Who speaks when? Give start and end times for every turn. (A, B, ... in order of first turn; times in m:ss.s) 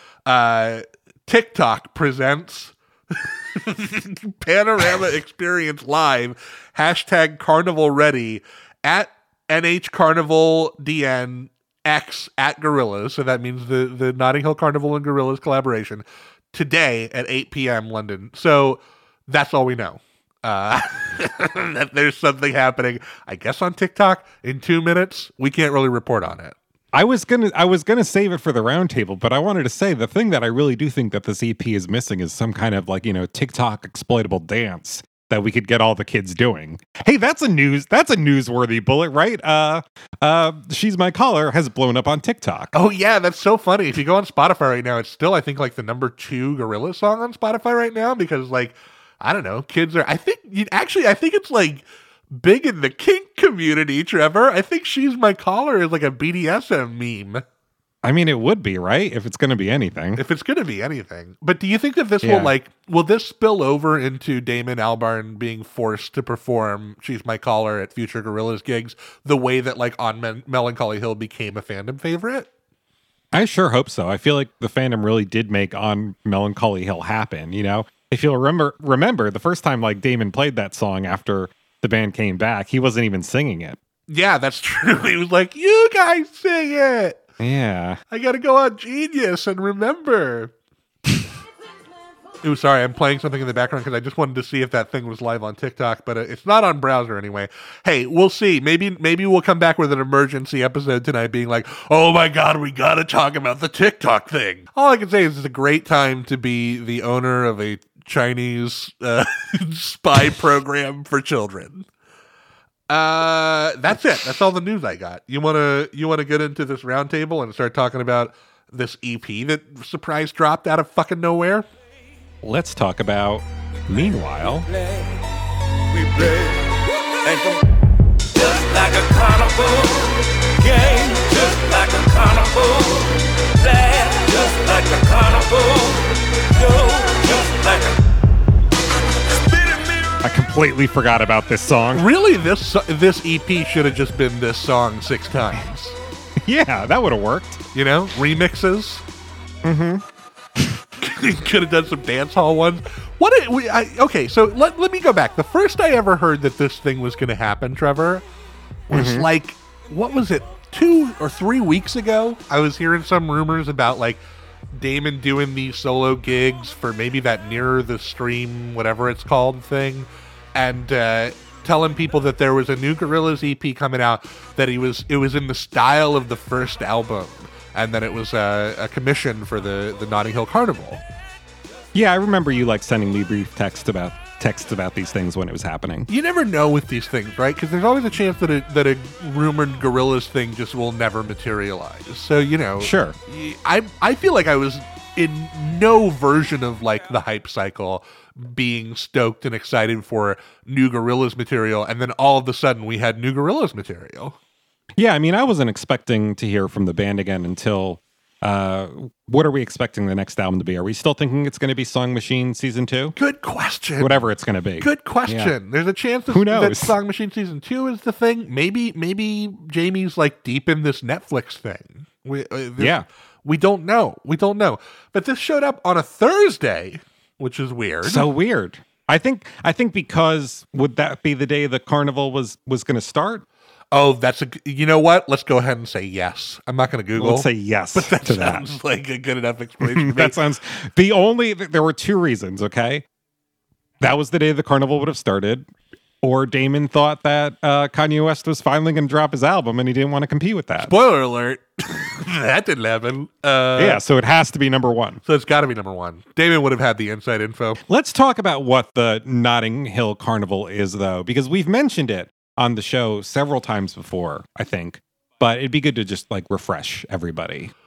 0:00.2-0:26.6 A
0:26.9-0:42.7 B
0:42.7-0:57.4 A
0:58.0-1:00.2 B
1:00.2-1:12.5 A
1:02.2-1:02.5 B
1:13.3-1:23.8 B
1:24.1-1:27.2 A
1:27.4-1:28.0 B
1:28.1-1:30.5 A
1:32.4-1:51.9 A
1:52.9-2:01.6 A
2:02.4-2:04.7 B
2:04.7-2:05.0 C
2:05.9-2:07.6 C
2:08.3-2:18.0 C
2:19.4-2:20.2 C
2:20.2-2:22.1 B
2:21.9-2:26.0 A
2:26.4-2:27.6 B
2:27.7-2:29.0 A
2:29.6-2:30.0 B
2:31.0-2:38.2 A
2:38.9-2:44.2 A
2:38.9-2:39.3 B
2:44.7-3:01.0 A
3:01.9-3:06.1 B
3:06.1-3:24.4 A
3:12.8-3:13.2 B
3:25.0-3:33.2 B
3:33.2-3:34.2 A
3:34.0-3:35.5 B
3:34.8-3:48.3 A
3:36.3-3:37.0 B
3:42.8-3:43.1 B
3:48.0-3:53.4 B
3:53.9-4:00.4 A
3:57.2-3:58.6 B
3:59.8-4:03.0 B
4:04.0-4:05.7 B
4:06.2-4:10.9 B
4:10.8-4:14.0 A
4:13.8-4:15.2 B
4:15.2-4:17.8 A
4:17.9-4:27.7 B